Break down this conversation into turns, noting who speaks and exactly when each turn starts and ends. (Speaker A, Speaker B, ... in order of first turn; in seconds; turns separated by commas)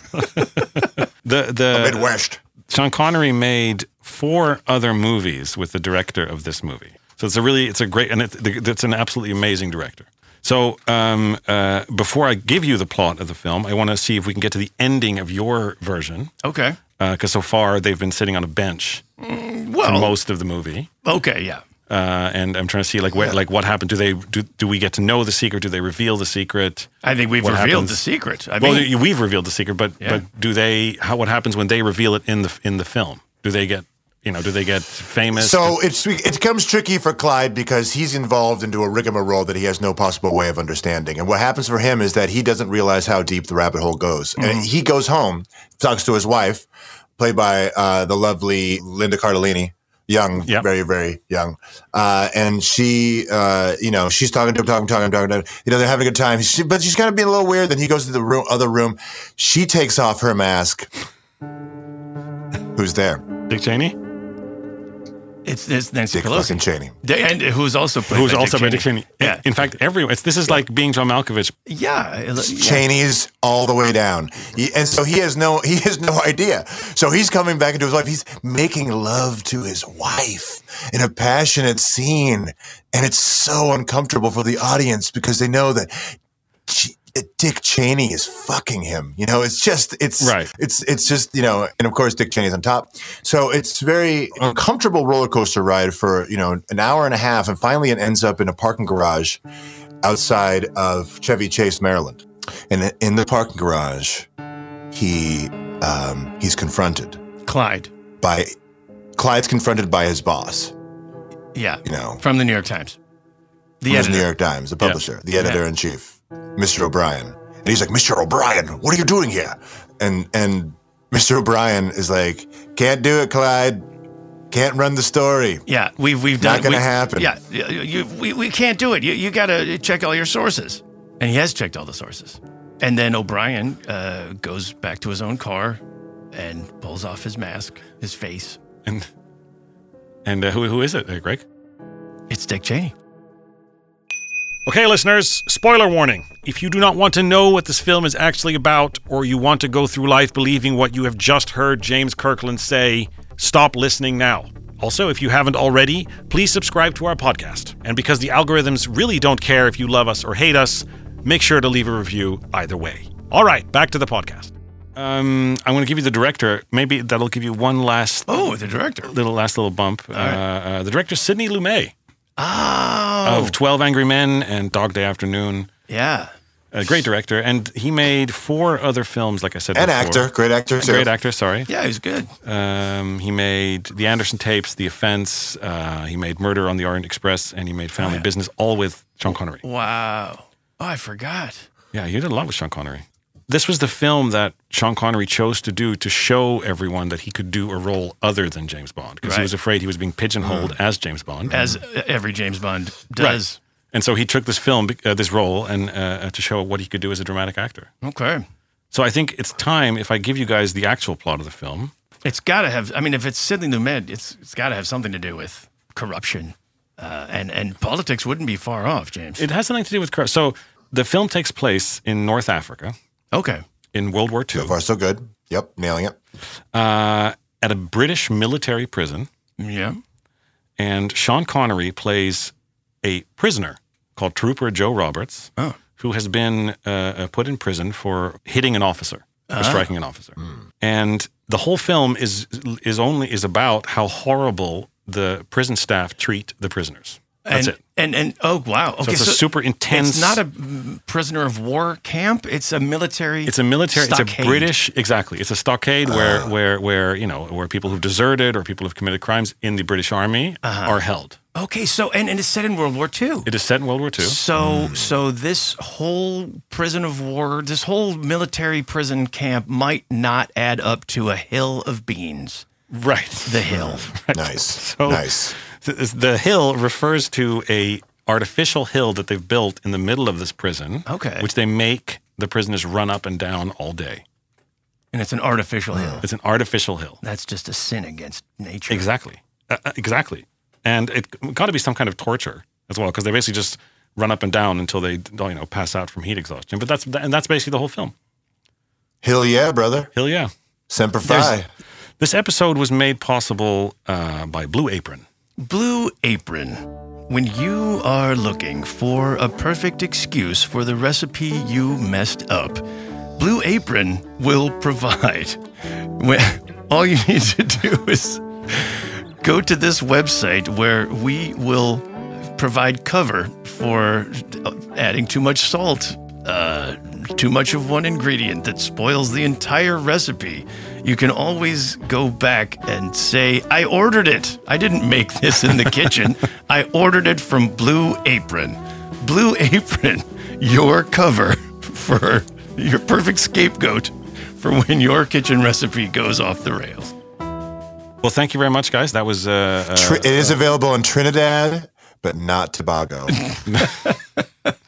Speaker A: 0.2-2.1, Speaker B: 1.7-2.4, Speaker A: 2.7-16.3, Speaker C: 16.4-16.8, Speaker A: 17.0-19.0, Speaker C: 19.2-20.1, Speaker A: 19.8-20.9, Speaker C: 21.0-21.6, Speaker A: 21.9-26.9, Speaker C: 27.0-28.9, Speaker A: 27.4-28.0, Speaker A: 28.6-35.8, Speaker B: 35.3-46.7, Speaker C: 44.4-44.7, Speaker B: 47.2-60.9, Speaker B: 62.7-63.2, Speaker A: 63.5-64.0, Speaker C: 65.4-69.4, Speaker B: 66.1-66.9, Speaker A: 68.1-71.5, Speaker C: 71.7-72.8, Speaker B: 72.4-86.2, Speaker B: 86.7-99.4, Speaker A: 90.2-90.5, Speaker B: 100.0-104.3, Speaker B: 104.9-107.2, Speaker C: 107.4-107.9, Speaker B: 108.2-108.5, Speaker B: 109.2-110.7, Speaker C: 111.5-113.0, Speaker B: 111.8-112.2, Speaker C: 113.8-114.3, Speaker B: 113.9-123.8, Speaker C: 115.4-115.6, Speaker B: 124.5-125.6, Speaker C: 125.7-135.8, Speaker B: 126.4-127.3, Speaker C: 136.3-138.6, Speaker A: 140.2-141.4, Speaker C: 142.3-142.9, Speaker A: 144.7-168.5, Speaker C: 168.3-169.1, Speaker A: 169.0-171.9, Speaker C: 170.1-170.4, Speaker C: 172.4-173.6, Speaker A: 173.2-175.7, Speaker C: 175.9-176.3, Speaker A: 176.7-181.7, Speaker B: 179.7-181.1, Speaker C: 181.7-182.3, Speaker A: 182.4-189.6, Speaker C: 188.0-188.3, Speaker C: 189.6-191.7, Speaker A: 191.9-201.7, Speaker C: 199.2-199.5, Speaker B: 200.4-200.7, Speaker C: 201.5-203.6, Speaker A: 203.9-207.9, Speaker C: 208.0-208.4, Speaker A: 208.9-211.9, Speaker C: 212.2-219.5, Speaker A: 219.4-222.9, Speaker C: 223.3-223.6, Speaker A: 223.9-224.7, Speaker B: 224.5-226.2, Speaker A: 226.7-229.3, Speaker C: 229.6-230.0, Speaker A: 230.8-232.5, Speaker A: 233.0-247.8, Speaker C: 239.5-239.9, Speaker C: 247.4-254.7, Speaker A: 249.0-250.4, Speaker A: 253.4-261.4, Speaker B: 256.1-256.5, Speaker C: 260.6-261.0, Speaker C: 261.5-263.5, Speaker A: 263.4-264.4, Speaker C: 264.2-272.6, Speaker B: 264.6-265.1, Speaker A: 272.9-284.2, Speaker C: 273.4-274.1, Speaker B: 273.7-275.5, Speaker C: 281.1-281.5, Speaker C: 285.1-286.2, Speaker B: 285.9-286.2, Speaker A: 286.2-287.2, Speaker C: 287.2-289.1, Speaker A: 288.9-298.1, Speaker B: 299.2-300.1, Speaker A: 300.1-300.5, Speaker B: 300.9-301.7, Speaker C: 301.2-301.6, Speaker A: 302.2-305.2, Speaker C: 305.6-312.8, Speaker C: 313.4-347.1, Speaker A: 348.2-350.6, Speaker B: 349.9-353.4, Speaker C: 353.5-354.2, Speaker A: 353.6-354.1